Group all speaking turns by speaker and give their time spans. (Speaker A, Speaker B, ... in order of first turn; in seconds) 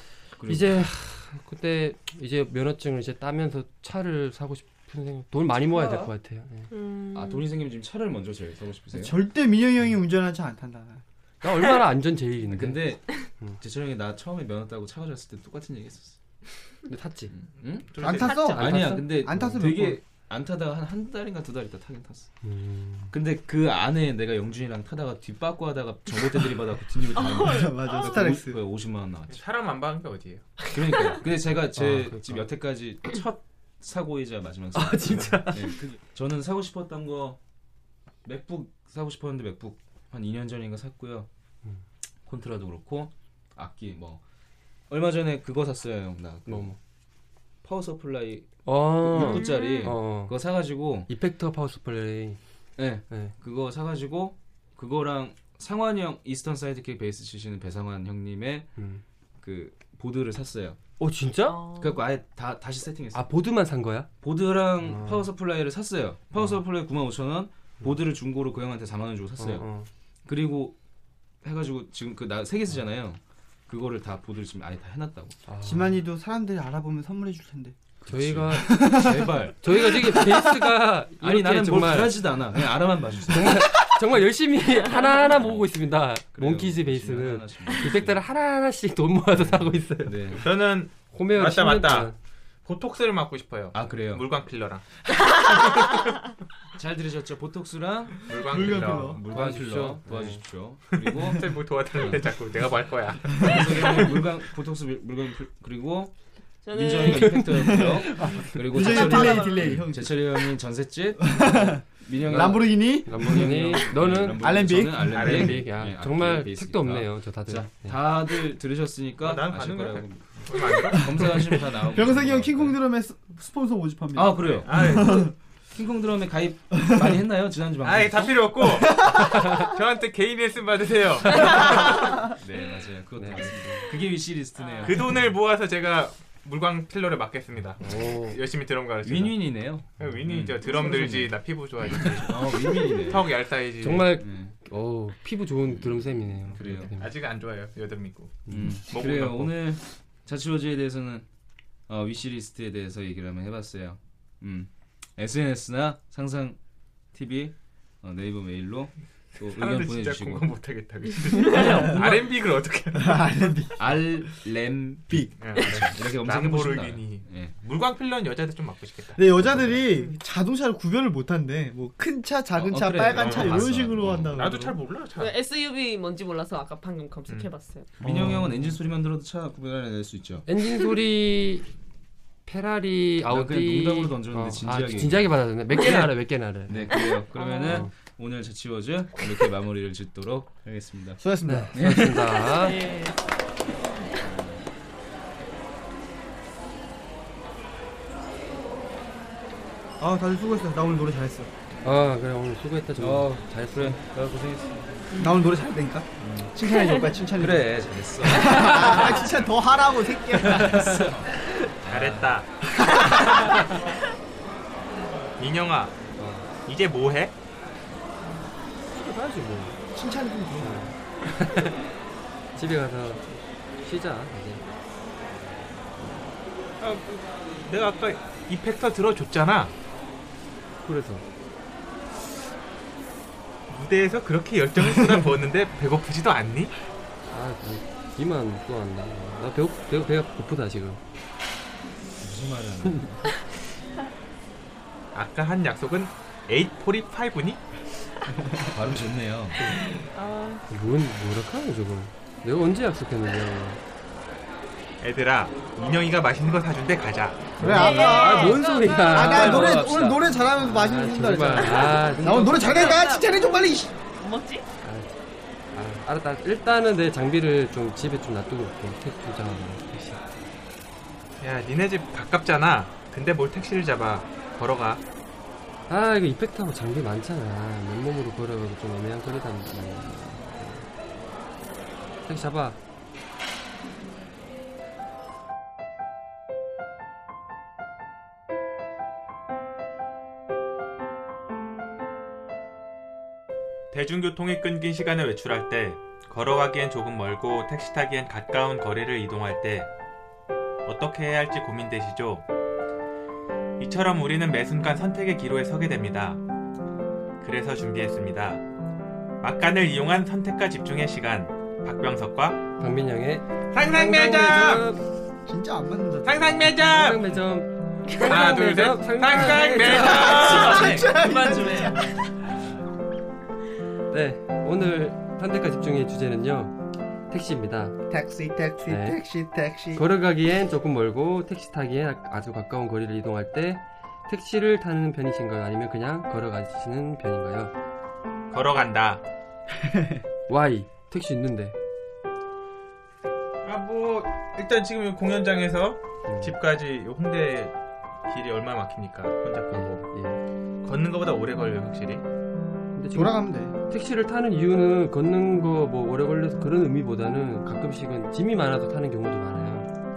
Speaker A: 0.3-0.8, 7.1-9.2, 12.5-16.2, 17.3-22.3, 23.1-29.4, 30.7-37.4, 38.2-41.3, 42.3-44.2, 44.9-46.8, 47.6-51.1, 52.8-58.7, 59.4-60.8, 61.7-63.3, 64.2-69.7, 70.2-70.8, 71.4-75.4, 78.0-79.9, 81.2-83.8, 85.2-88.2, 89.3-90.5, 93.7-94.3, 96.8-102.3, 103.3-106.2, 106.7-122.8, 124.2-128.7, 132.4-135.3, 139.0-141.4, 142.2-143.4, 144.0-144.5, 145.7-146.9, 148.5-151.3, 151.9-156.6, 157.1-160.5, 161.4-162.4, 163.8-167.6, 169.4-169.8, 172.6-174.5, 178.0-180.5, 183.3-186.2, 186.7-191.2, 191.8-192.2, 194.2-194.7, 203.0-205.1, 206.2-206.5, 207.3-209.4, 210.4-212.4, 242.2-243.4, 248.7-249.6
Speaker B: 0.5-6.7, 11.4-13.6, 16.9-17.3, 18.1-19.6, 22.4-23.1, 31.8-32.5, 34.8-35.8, 46.5-46.8, 48.6-50.3, 51.1-52.4, 58.8-59.0, 61.0-61.7, 63.1-64.1, 64.8-65.3, 69.4-69.9, 75.5-76.0, 78.1-82.2, 83.3-90.5, 91.1-92.2, 99.3-100.5, 112.3-114.5, 115.2-118.0, 133.2-133.9, 137.8-138.4, 143.8-147.1, 148.5-148.8, 180.5-181.7, 182.5-187.1, 187.7-187.9, 191.5-192.8, 201.8-204.0, 216.2-216.5, 218.9-219.8, 220.6-221.8, 222.6-223.2, 223.8-224.6, 230.8-231.2, 237.3-241.0, 250.7-253.8, 257.6-263.0, 264.8-265.2, 265.7-270.2, 275.9-280.9, 282.3-282.8, 312.8-315.0, 316.8-320.3, 324.1-326.8, 327.3-328.0, 328.9-329.2, 329.9-337.7, 340.5-341.7, 346.3-346.6, 349.7-350.4, 352.9-359.9
Speaker C: 6.7-7.5, 27.1-28.3, 30.9-31.2, 49.1-49.9, 61.5-62.0, 106.6-109.8, 134.6-135.0, 161.4-161.7, 175.2-177.9, 185.8-186.1, 186.9-187.9, 192.4-193.2, 205.1-205.4, 206.7-207.0, 249.9-250.6, 257.6-259.8, 261.6-263.4, 264.2-264.7, 320.2-322.3
Speaker D: 8.9-11.0, 18.0-20.0, 27.0-28.6, 75.6-77.8, 78.5-80.7, 98.5-99.2, 107.4-110.5, 111.2-115.6, 120.9-125.3, 126.8-127.1, 128.8-129.3, 162.9-164.3, 169.2-174.8, 178.0-178.8, 191.2-192.3, 200.0-201.5, 205.2-211.1, 212.8-213.2, 219.9-220.9, 257.6-263.9, 315.5-316.7, 319.9-322.2, 328.1-330.0, 339.8-340.2, 353.1-353.8
Speaker E: 18.0-18.4, 29.3-30.6, 90.4-92.1, 92.7-96.0, 98.2-99.2, 101.1-104.0, 115.1-115.7, 119.2-121.4, 124.7-125.3, 127.8-132.2, 134.8-144.1, 146.8-149.5, 159.5-163.3, 165.4-169.2, 173.1-175.3, 211.9-212.7, 215.4-216.0, 216.7-217.3, 226.8-229.7, 233.7-236.8, 245.1-247.6, 255.0-257.6, 271.4-275.0, 293.9-299.9, 300.9-302.4, 303.8-306.4, 307.4-308.6, 309.4-312.6, 313.7-314.9, 316.2-317.2, 318.2-321.1, 338.5-339.2, 343.6-347.8, 348.3-350.1, 350.8-352.2